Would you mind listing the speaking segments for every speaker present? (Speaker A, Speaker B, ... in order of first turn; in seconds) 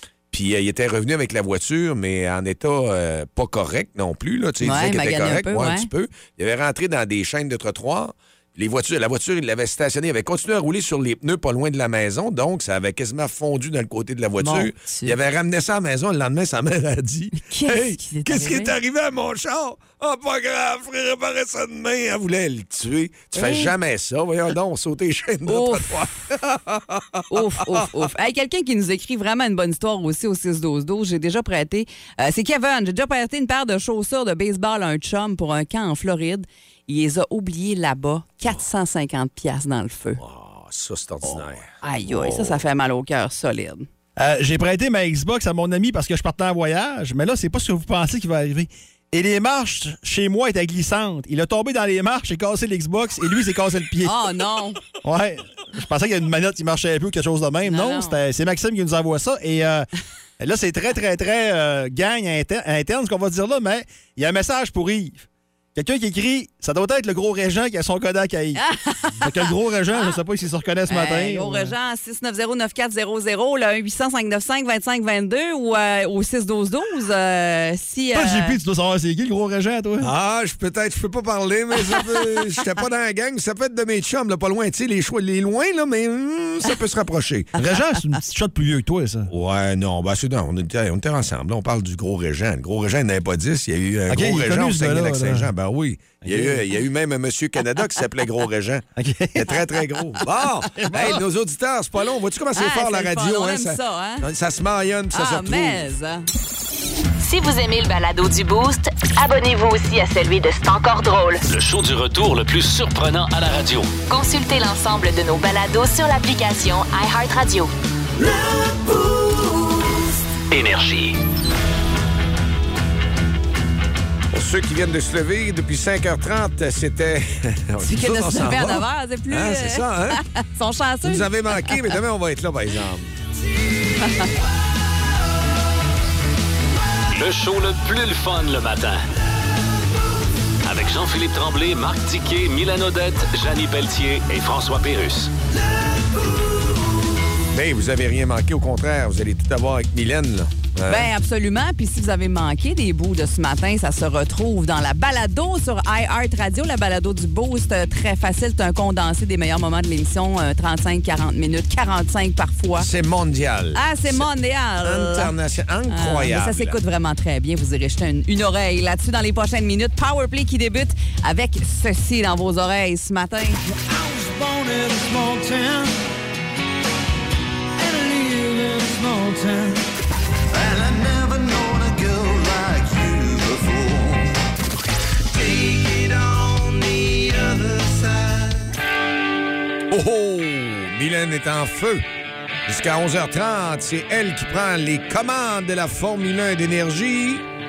Speaker A: 0.3-27.9, 40.2-42.6, 80.0-87.5, 89.3-105.9, 124.3-130.2, 131.0-133.1, 147.5-151.1, 162.8-164.3, 164.8-166.8, 189.9-192.0, 192.7-197.4
Speaker B: 4.6-5.9, 14.4-15.2, 17.4-18.7, 23.4-23.7, 25.5-26.1, 27.3-40.2, 41.2-43.9, 54.0-54.8, 57.6-58.2, 68.6-69.5, 70.9-78.6, 102.5-104.3, 105.1-106.3, 127.8-131.9, 134.0-134.3, 150.9-162.9, 163.8-165.3, 165.9-173.6
Speaker C: 44.2-54.2, 55.0-68.6, 69.2-71.8, 78.1-80.1, 87.6-89.3, 94.1-95.5, 96.2-96.6, 99.0-99.5, 100.8-101.2
Speaker D: 107.2-111.5, 114.1-117.7
Speaker E: 111.5-113.9, 120.5-121.2, 137.1-139.0, 140.6-145.3
Speaker F: 118.2-120.3, 146.1-146.8, 173.7-176.0, 177.8-179.9, 180.5-184.4, 185.3-188.8